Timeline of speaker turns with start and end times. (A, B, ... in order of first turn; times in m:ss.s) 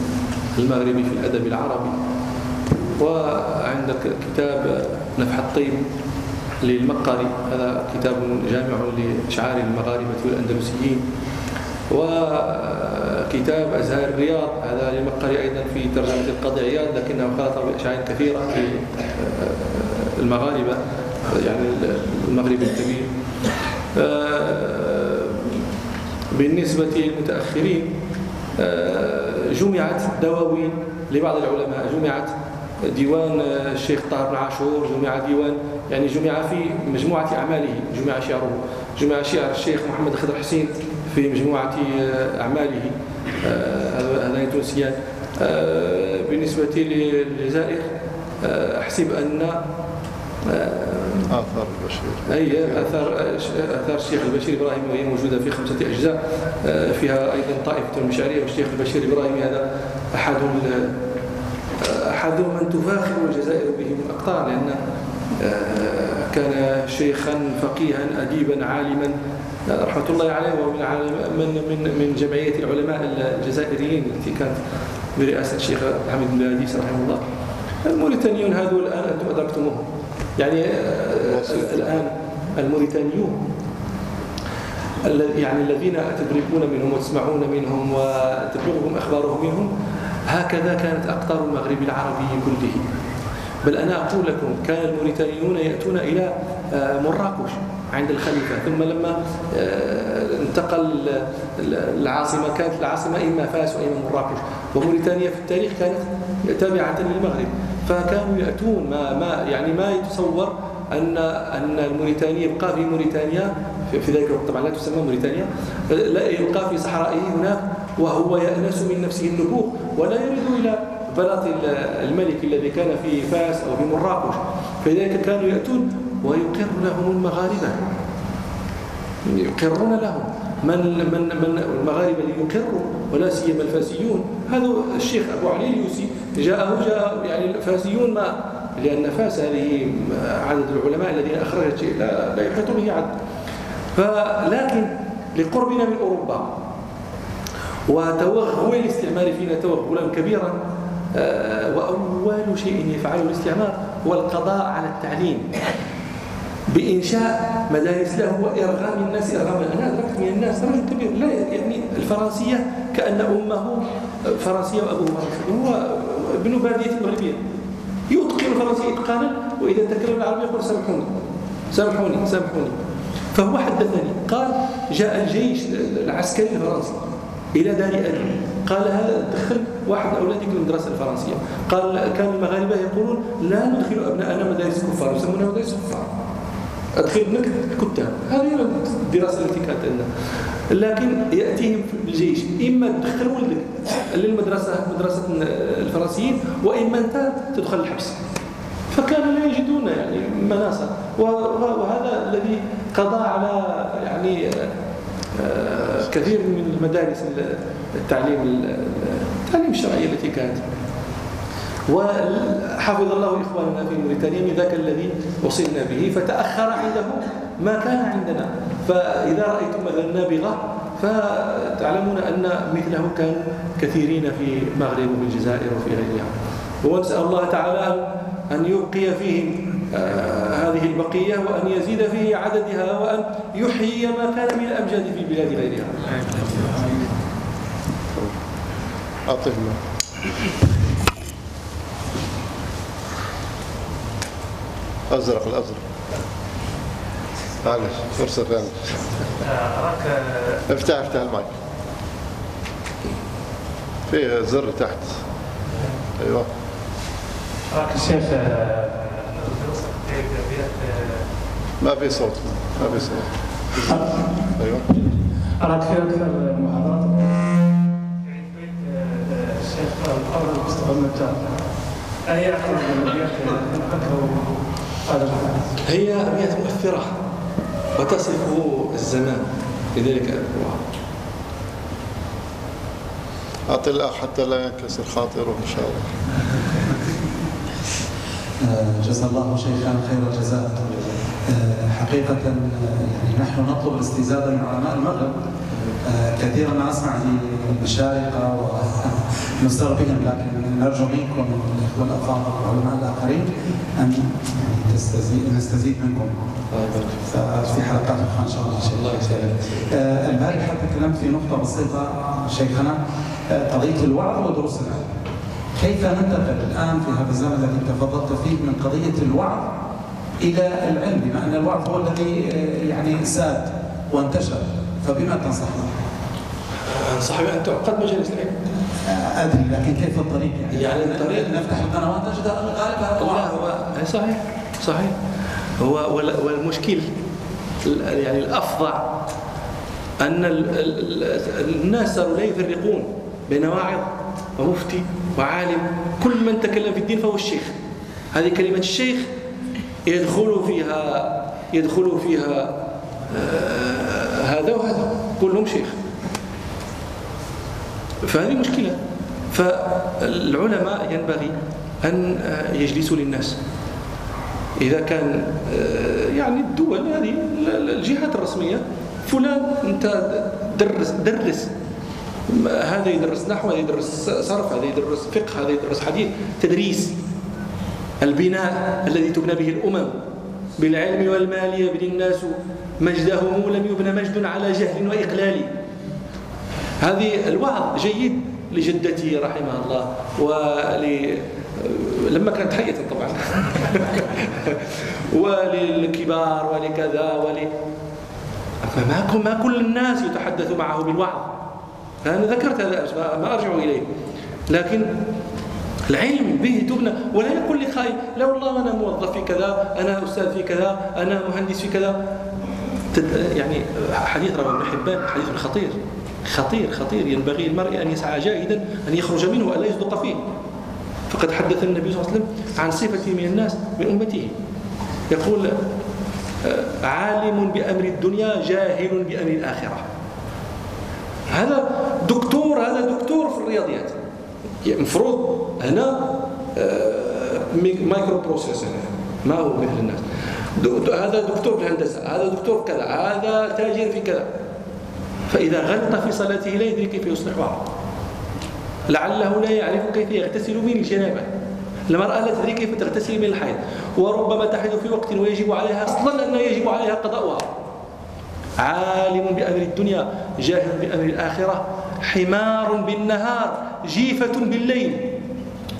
0:00.5-0:02.0 A
0:03.0-0:05.8 A
0:06.6-0:11.0 A
0:11.9-0:23.1 A
0:23.9-0:25.5 A
0:26.3-0:27.9 A
0:28.6-0:47.9 A
0:48.4-0:49.6 A
0:50.4-0:51.3 A
0:51.3-0:52.9 B
0:52.3-1:01.0 A
1:01.8-1:04.8 A
1:05.4-1:09.2 A
1:09.7-1:14.6 A
1:15.2-1:17.2 A
1:17.8-1:23.4 A
1:21.3-1:22.0 B
1:25.0-1:29.7 A
1:30.3-1:32.8 A
1:33.6-2:08.0 A
2:09.2-2:23.1 A
2:23.9-2:26.6 A
2:27.9-2:30.6 A
2:31.1-2:35.5 A
2:36.7-2:47.4 A
2:48.1-2:51.2 A
2:51.7-2:52.8 A
2:53.3-2:57.0 A
2:57.5-3:06.1 A
3:07.0-3:10.1 A
3:10.7-3:18.2 A
3:18.9-3:24.7 A
3:25.3-3:30.6 A
3:31.9-3:56.1 A
3:59.2-3:59.8 B
4:05.1-4:05.8 B
4:07.6-4:09.0 B
4:10.6-4:11.5 B
4:14.1-4:15.2 B
4:16.2-4:16.5 B
4:17.8-4:18.8 C
4:21.8-4:24.9 B
4:25.7-4:27.0 C
4:29.4-4:31.2 C
4:32.4-4:34.1 C
4:35.8-4:37.1 A
4:37.9-4:40.8 A
4:43.7-4:46.1 B
4:48.6-4:55.3 D
4:56.0-5:06.4 D
5:06.7-5:07.3 A
5:07.3-5:15.1 D
5:08.9-5:09.6 A
5:15.7-5:19.8 D
5:20.4-5:26.0 D
5:26.8-5:28.6 A
5:29.0-5:33.5 D
5:30.7-5:31.6 A
5:33.2-5:35.1 A
5:35.8-5:37.1 A
5:37.8-5:39.2 A
5:40.2-5:47.7 A
5:48.3-5:49.3 A
5:50.0-5:56.0 A
5:58.2-5:59.0 A
5:59.5-6:03.6 A
6:04.8-6:11.7 A
6:12.5-6:17.2 A
6:18.2-6:20.2 A
6:20.8-6:25.7 A
6:27.0-6:37.7 A
6:38.8-6:41.6 A
6:42.2-6:44.0 A
6:44.7-6:45.2 A
6:46.1-6:52.2 A
6:53.1-7:00.4 A
7:01.3-7:04.5 A
7:05.3-7:05.8 A
7:06.6-7:10.0 A
7:11.5-7:14.2 A
7:14.8-7:20.2 A
7:20.8-7:24.5 A
7:25.5-7:27.9 A
7:29.1-7:31.5 A
7:32.1-7:37.7 A
7:38.8-7:45.4 A